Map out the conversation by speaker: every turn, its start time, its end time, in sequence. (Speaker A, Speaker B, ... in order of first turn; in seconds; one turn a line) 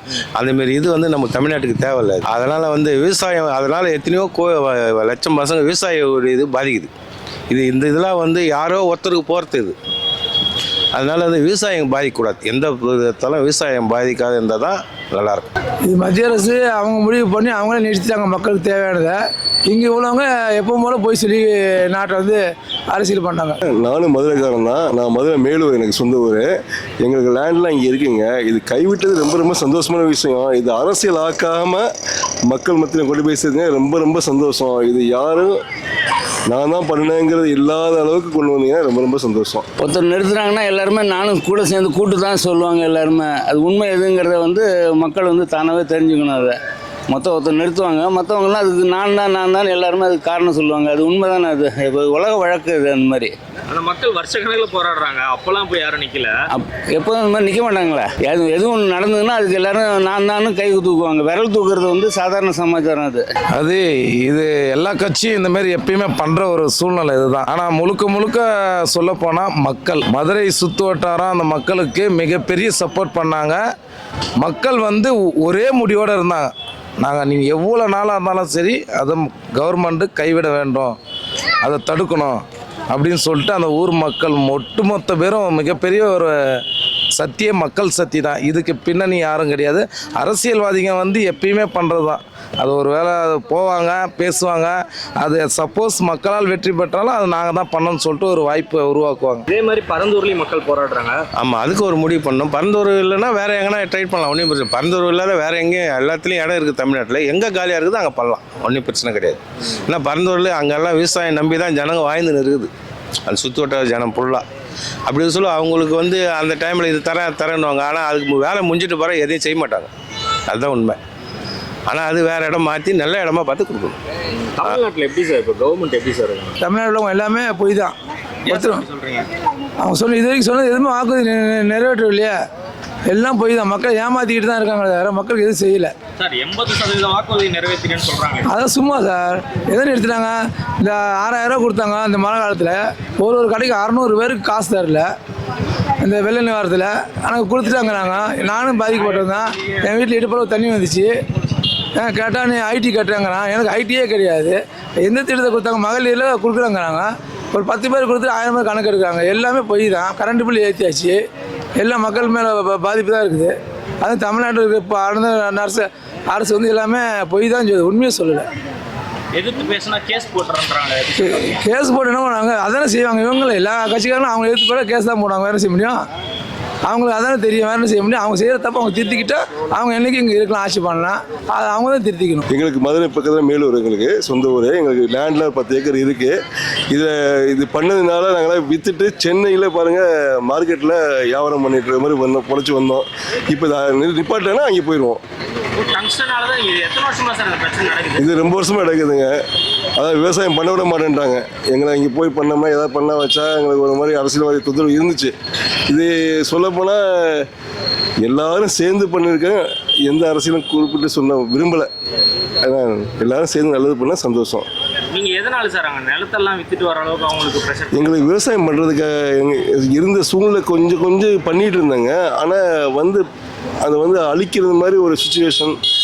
Speaker A: 0.3-6.9
Speaker A: 7.5-9.7
Speaker A: 10.9-15.4
Speaker B: 15.8-19.1
Speaker B: 19.7-23.6
Speaker C: 23.7-26.5
Speaker C: 27.0-31.9
Speaker C: 32.5-35.6
Speaker C: 36.5-39.6
Speaker D: 39.8-46.6
Speaker D: 47.1-53.3
Speaker E: 53.7-56.3
Speaker D: 56.5-63.2
Speaker F: 63.5-73.6
Speaker F: 74.4-76.5
Speaker F: 77.0-81.0
Speaker F: 81.6-86.3
Speaker F: 87.1-99.4
Speaker E: 99.5-101.2
Speaker A: 101.4-112.7
Speaker A: 113.3-114.4
Speaker A: 115.1-119.9
Speaker A: 120.5-121.0
Speaker A: 121.9-124.0
Speaker E: 124.5-126.6
Speaker B: 126.6-127.9
Speaker E: 128.4-129.3
Speaker B: 128.5-128.8
Speaker B: 129.8-132.4
Speaker B: 133.1-135.9
Speaker E: 136.2-138.5
Speaker B: 138.5-145.1
Speaker B: 146.0-151.1
Speaker E: 149.0-149.8
Speaker B: 151.9-161.2
Speaker B: 161.8-168.4
Speaker E: 169.3-171.6
Speaker B: 171.2-176.0
Speaker B: 176.8-182.4
Speaker C: 182.5-186.3
Speaker C: 186.9-195.2
Speaker E: 195.8-198.3
Speaker C: 198.2-199.4
Speaker C: 200.0-205.3
Speaker C: 205.9-207.5
Speaker C: 208.2-211.9
Speaker C: 212.6-214.7
Speaker E: 215.1-218.3
Speaker C: 217.9-223.2
Speaker C: 223.8-225.8